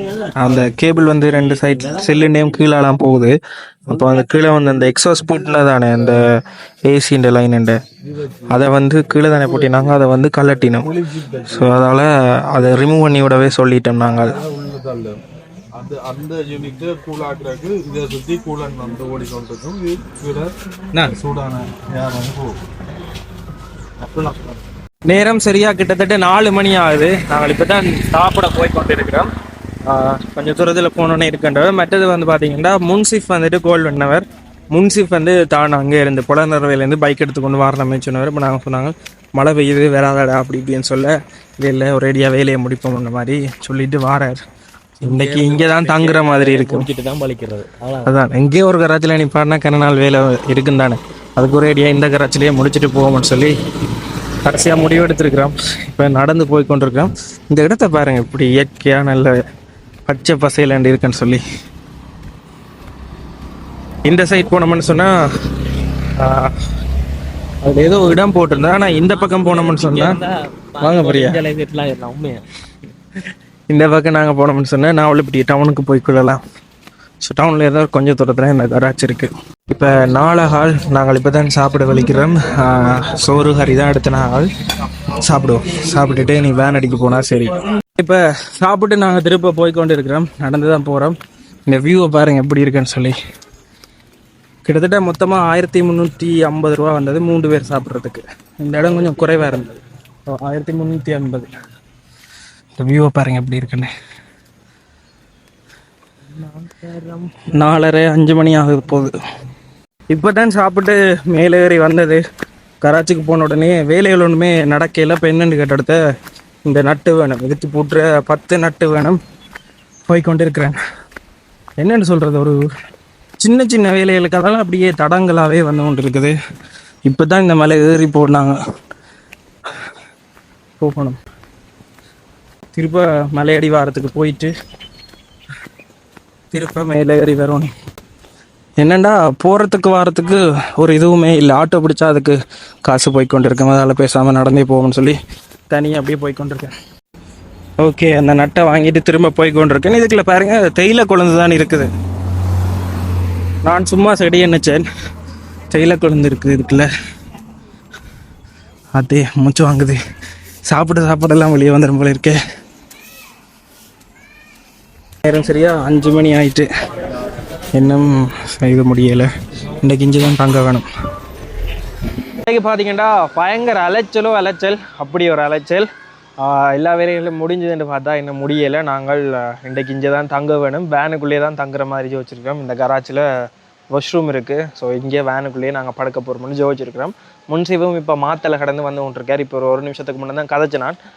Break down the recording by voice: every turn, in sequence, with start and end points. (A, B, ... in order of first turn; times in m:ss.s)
0:00.4-0:03.4 A
0:03.9-0:06.2 A
0:06.9-0:07.8 A
0:08.1-0:09.9 B
0:08.5-0:10.9 A
0:10.7-0:11.9 B
0:11.5-0:14.4 A
0:14.2-0:15.2 B
0:15.8-0:22.6 B
0:24.1-0:24.6 B
0:25.1-0:29.3 A
0:29.9-0:44.4 A
0:45.0-0:48.1 C
0:45.0-0:46.9 A
0:48.1-0:53.5 A
0:54.4-0:59.3 A
1:00.1-1:01.4 A
1:04.1-1:05.1 A
1:06.2-1:06.5 A
1:07.6-1:10.2 A
1:08.7-1:12.4 C
1:10.8-1:11.4 A
1:13.7-1:16.4 A
1:17.2-1:24.5 A
1:25.2-1:31.2 A
1:31.7-1:33.1 A
1:34.6-1:39.7 A
1:40.3-1:41.5 A
1:42.8-1:43.9 A
1:46.3-1:49.1 A
1:50.1-1:52.2 A
1:52.8-1:56.0 A
1:56.7-1:59.2 A
2:00.1-2:00.8 A
2:01.8-2:02.6 A
2:03.4-2:06.3 A
2:07.1-2:08.6 A
2:10.8-2:11.2 A
2:12.7-2:14.5 A
2:16.5-2:17.7 A
2:18.8-2:25.2 A
2:25.7-2:26.7 A
2:27.8-2:31.9 A
2:33.6-2:34.8 A
2:35.7-2:36.9 A
2:39.0-2:40.0 A
2:40.7-2:42.4 A
2:45.2-2:46.6 A
2:47.7-2:49.3 A
2:49.8-2:50.8 A
2:52.4-2:55.9 A
2:56.4-3:03.3 A
3:03.9-3:11.0 A